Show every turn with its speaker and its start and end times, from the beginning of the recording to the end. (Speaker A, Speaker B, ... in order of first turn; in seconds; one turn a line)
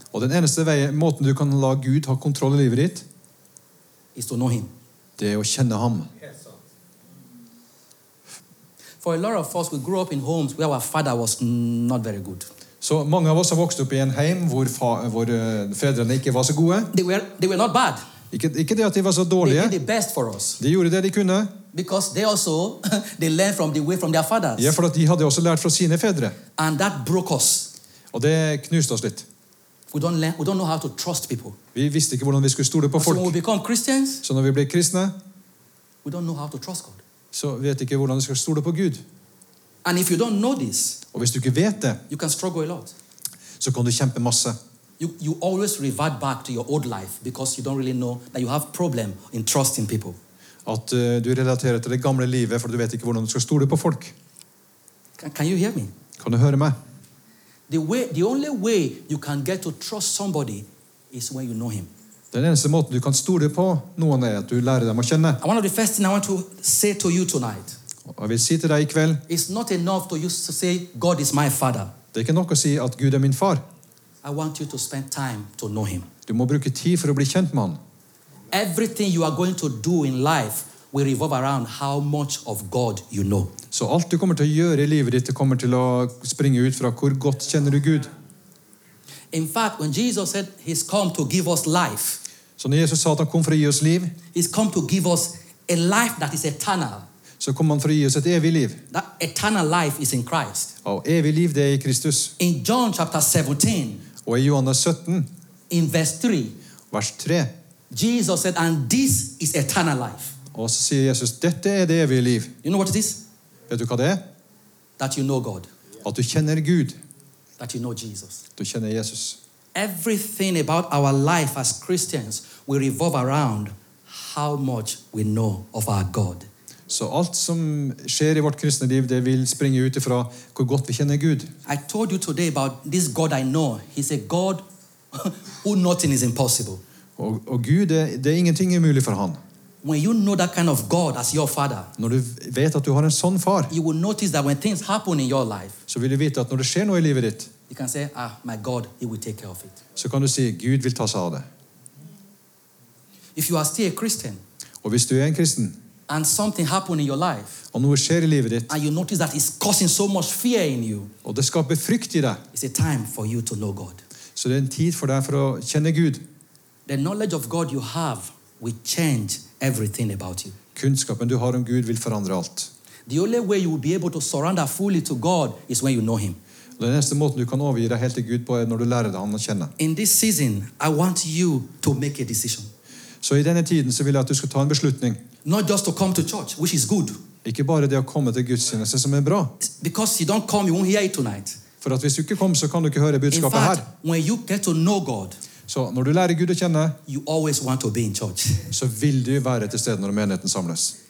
Speaker A: 0.1-3.0
Speaker B: 4.1-4.7
Speaker A: 5.2-6.1
Speaker B: 9.0-12.5
Speaker A: 12.8-16.9
Speaker B: 16.9-18.0
Speaker A: 18.3-19.8
Speaker B: 19.4-20.6
Speaker A: 20.6-21.5
Speaker B: 21.7-24.8
Speaker A: 24.6-26.4
Speaker B: 26.6-27.7
Speaker A: 28.1-29.2
Speaker B: 29.9-31.6
Speaker A: 31.7-33.3
Speaker B: 33.0-34.2
Speaker A: 34.2-35.1
Speaker B: 36.0-37.0
Speaker A: 37.3-39.0
Speaker B: 39.8-41.0
Speaker A: 41.1-42.0
Speaker B: 42.1-42.9
Speaker A: 43.6-44.6
Speaker B: 45.0-50.2
Speaker A: 50.6-54.1
Speaker B: 55.2-55.9
Speaker A: 56.2-56.8
Speaker B: 57.7-61.9
Speaker A: 62.3-65.4
Speaker B: 65.4-67.8
Speaker A: 68.1-69.2
Speaker B: 69.3-71.9
Speaker A: 72.1-73.6
Speaker B: 74.2-76.1
Speaker A: 76.3-77.8
Speaker B: 78.5-83.5
Speaker A: 83.7-88.1
Speaker B: 89.3-92.2
Speaker A: 92.6-94.1
Speaker B: 94.3-97.1
Speaker A: 97.4-98.8
Speaker B: 98.9-100.7
Speaker A: 100.8-102.3
Speaker B: 102.4-104.0
Speaker A: 104.2-105.3
Speaker B: 105.7-106.5
Speaker A: 106.9-107.5
Speaker B: 107.9-110.3
Speaker A: 110.5-112.5
Speaker B: 112.6-113.2
Speaker A: 113.7-114.2
Speaker B: 115.0-115.7
Speaker A: 116.0-117.0
Speaker B: 117.6-118.4
Speaker A: 118.6-119.4
Speaker B: 119.7-126.5
Speaker A: 126.9-131.5
Speaker B: 131.7-136.8
Speaker A: 137.2-139.4
Speaker B: 139.8-141.9
Speaker A: 142.0-143.7
Speaker B: 143.7-145.8
Speaker A: 145.9-147.5
Speaker B: 147.7-149.8
Speaker A: 149.9-151.4
Speaker B: 153.3-154.4
Speaker A: 154.8-155.8
Speaker B: 156.1-157.6
Speaker A: 157.7-158.7
Speaker B: 158.7-161.1
Speaker A: 161.2-162.4
Speaker B: 162.5-164.0
Speaker A: 164.3-166.2
Speaker B: 166.8-170.6
Speaker A: 170.7-172.7
Speaker B: 173.1-176.4
Speaker A: 176.8-179.7
Speaker B: 179.8-182.7
Speaker A: 183.2-185.2
Speaker B: 185.4-187.2
Speaker A: 187.4-189.5
Speaker B: 189.6-191.6
Speaker A: 191.8-193.8
Speaker B: 193.3-195.4
Speaker A: 195.7-197.0
Speaker B: 197.1-198.7
Speaker A: 198.7-200.9